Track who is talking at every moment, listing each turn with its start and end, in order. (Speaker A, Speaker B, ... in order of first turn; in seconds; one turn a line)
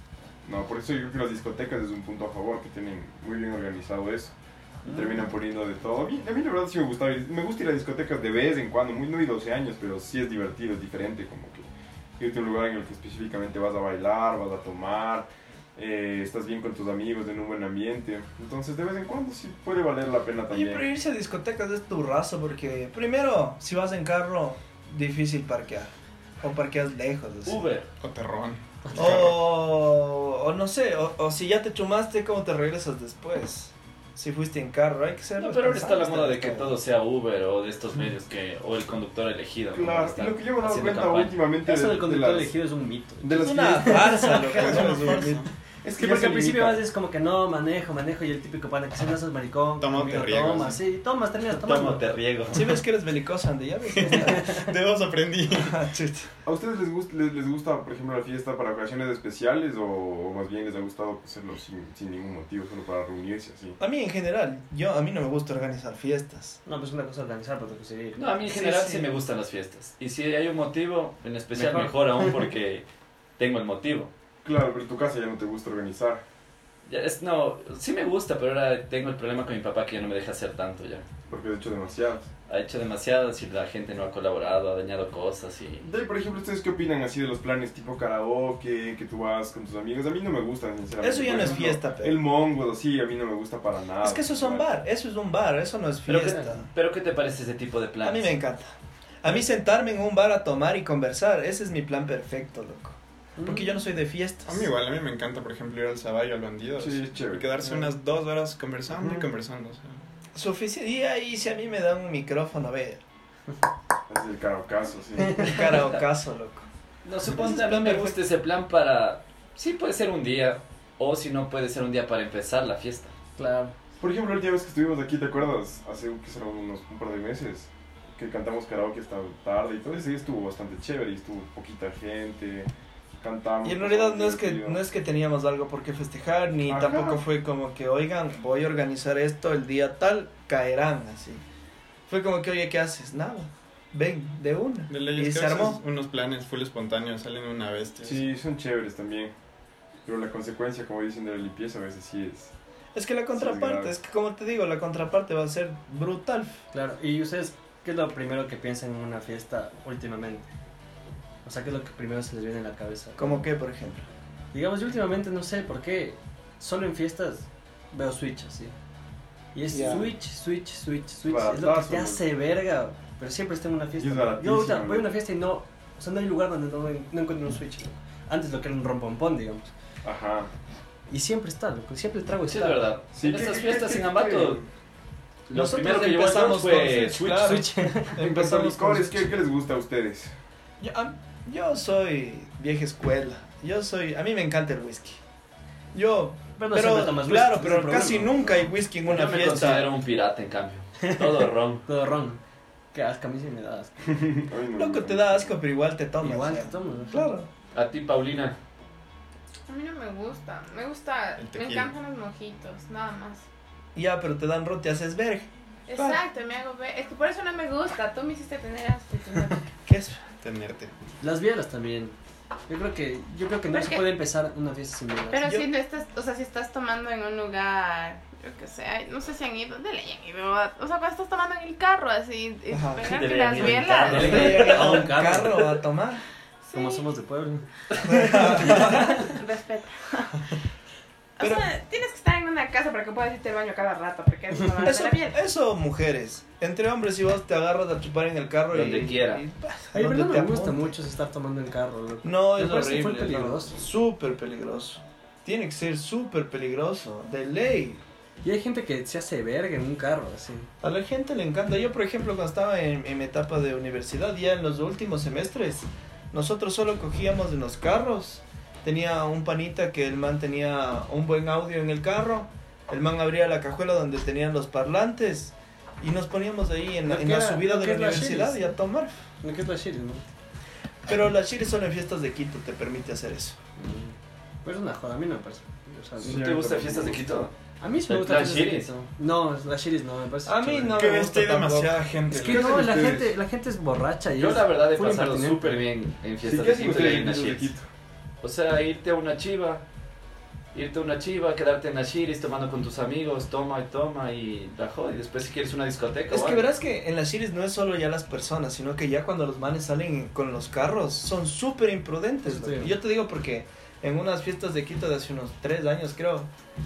Speaker A: 0.4-4.3
Speaker B: 4.8-5.3
Speaker A: 4.8-20.8
Speaker C: 20.5-27.6
Speaker D: 27.4-27.9
Speaker E: 28.0-29.4
Speaker B: 28.8-29.2
Speaker C: 28.9-36.7
Speaker D: 35.4-41.3
Speaker A: 39.7-42.5
Speaker B: 41.6-45.2
Speaker A: 43.2-44.1
Speaker C: 43.3-45.4
Speaker E: 44.3-45.5
Speaker A: 45.8-46.8
Speaker B: 46.0-52.1
Speaker E: 49.8-50.8
Speaker D: 51.6-52.7
Speaker C: 52.5-54.6
Speaker E: 53.9-55.9
Speaker B: 54.1-54.7
Speaker C: 55.5-56.3
Speaker A: 56.4-63.8
Speaker C: 63.8-66.6
Speaker B: 66.7-68.2
Speaker D: 68.2-72.8
Speaker C: 68.5-69.1
Speaker B: 71.5-72.3
Speaker D: 73.4-74.1
Speaker A: 74.4-76.2
Speaker D: 76.9-81.0
Speaker A: 81.3-82.3
Speaker D: 82.5-85.9
Speaker A: 85.8-94.7
Speaker C: 91.0-92.2
Speaker C: 94.0-96.7
Speaker D: 96.1-98.3
Speaker C: 98.0-104.7
Speaker B: 103.4-103.8
Speaker E: 104.5-110.0
Speaker A: 106.8-107.5
Speaker B: 107.6-107.9
Speaker A: 108.9-109.3
Speaker C: 110.3-113.0
Speaker A: 114.1-115.7
Speaker C: 115.3-116.7
Speaker D: 117.1-123.1
Speaker C: 117.2-118.2
Speaker B: 123.4-123.7
Speaker A: 124.0-132.7
Speaker A: 133.2-134.8
Speaker C: 133.6-141.4
Speaker A: 136.7-137.2
Speaker C: 142.1-145.8
Speaker E: 144.9-148.2
Speaker A: 148.0-149.3
Speaker A: 150.0-152.5
Speaker C: 152.9-156.6
Speaker A: 153.3-153.9
Speaker B: 156.7-160.5
Speaker B: 161.4-163.4
Speaker C: 163.2-164.0
Speaker B: 164.5-168.7
Speaker B: 169.5-179.7
Speaker C: 169.7-170.1
Speaker A: 171.2-172.2
Speaker A: 174.0-175.1
Speaker A: 180.0-180.5
Speaker B: 181.1-182.9
Speaker D: 182.5-184.6
Speaker A: 183.1-184.7
Speaker D: 185.5-187.7
Speaker C: 185.5-189.1
Speaker B: 187.4-189.2
Speaker A: 188.2-190.3
Speaker C: 190.8-195.2
Speaker C: 195.9-199.9
Speaker B: 196.6-198.7
Speaker D: 199.1-201.8
Speaker B: 201.0-202.4
Speaker B: 202.9-204.1
Speaker A: 204.0-205.6
Speaker C: 204.8-207.5
Speaker B: 206.2-207.3
Speaker D: 207.7-208.6
Speaker F: 209.7-213.4
Speaker E: 211.4-211.9
Speaker C: 213.9-216.2
Speaker F: 215.9-219.6
Speaker C: 219.8-220.2
Speaker E: 220.4-220.9
Speaker B: 221.2-222.2
Speaker B: 222.7-225.4
Speaker F: 223.7-224.1
Speaker F: 225.3-234.7
Speaker C: 225.4-225.7
Speaker C: 232.7-233.0
Speaker D: 233.0-235.1
Speaker B: 233.5-235.8
Speaker C: 234.0-236.2
Speaker F: 236.6-237.1
Speaker B: 236.7-239.3
Speaker C: 238.0-239.2
Speaker F: 238.8-240.5
Speaker F: 241.4-245.4
Speaker C: 241.4-241.7
Speaker C: 244.8-250.9
Speaker D: 248.7-249.4
Speaker B: 249.9-253.8
Speaker C: 252.2-258.0
Speaker B: 258.4-260.7
Speaker C: 260.8-279.2
Speaker B: 277.0-278.7
Speaker B: 279.4-280.2
Speaker C: 281.1-283.6
Speaker B: 283.8-286.6
Speaker A: 286.2-287.2
Speaker D: 286.2-287.5
Speaker B: 287.8-291.0
Speaker D: 288.1-288.9
Speaker C: 290.4-292.1
Speaker E: 290.9-292.9
Speaker B: 292.3-295.8
Speaker A: 292.4-293.3
Speaker D: 294.4-297.7
Speaker A: 296.4-297.9
Speaker D: 298.4-299.8
Speaker D: 300.7-306.6
Speaker C: 306.3-316.5
Speaker B: 312.4-312.9